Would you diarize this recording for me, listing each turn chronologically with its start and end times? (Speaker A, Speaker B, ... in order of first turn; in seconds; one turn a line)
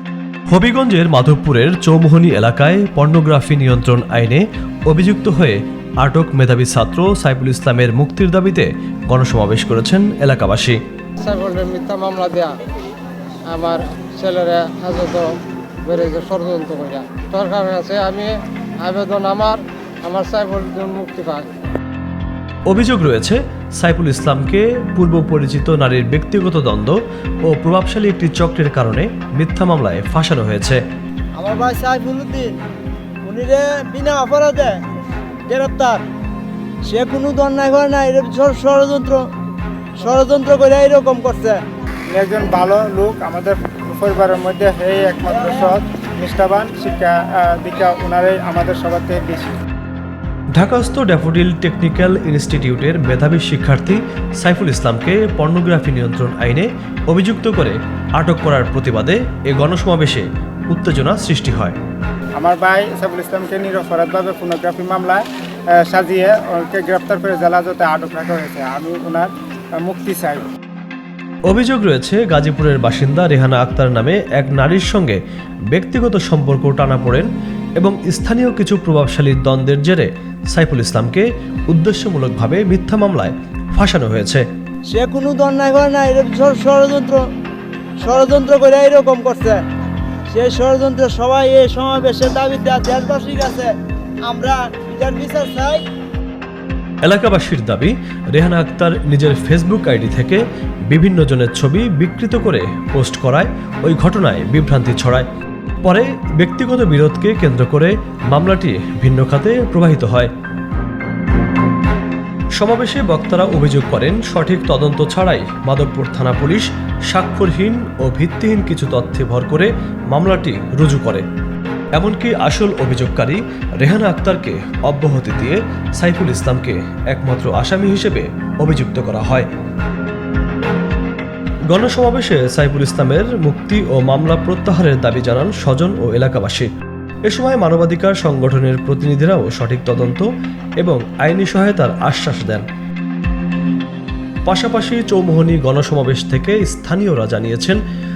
Speaker A: 0.5-10.8
Speaker B: 11.2-12.5
Speaker B: 13.5-15.3
Speaker B: 15.8-21.5
Speaker A: 22.7-30.8
Speaker C: 31.4-32.5
Speaker C: 33.2-34.8
Speaker C: 35.5-36.0
Speaker C: 36.9-39.2
Speaker C: 40.0-41.6
Speaker D: 42.1-49.6
Speaker C: 45.3-45.7
Speaker A: 50.5-61.8
Speaker D: 62.4-70.5
Speaker A: 71.5-84.4
Speaker C: 84.9-87.2
Speaker C: 88.0-89.6
Speaker C: 90.3-93.7
Speaker C: 94.3-95.8
Speaker A: 97.0-105.3
Speaker A: 105.8-110.3
Speaker A: 112.6-121.2
Speaker A: 122.0-129.5
Speaker A: 131.7-136.7
Speaker A: 137.3-142.7
Speaker A: 144.5-147.8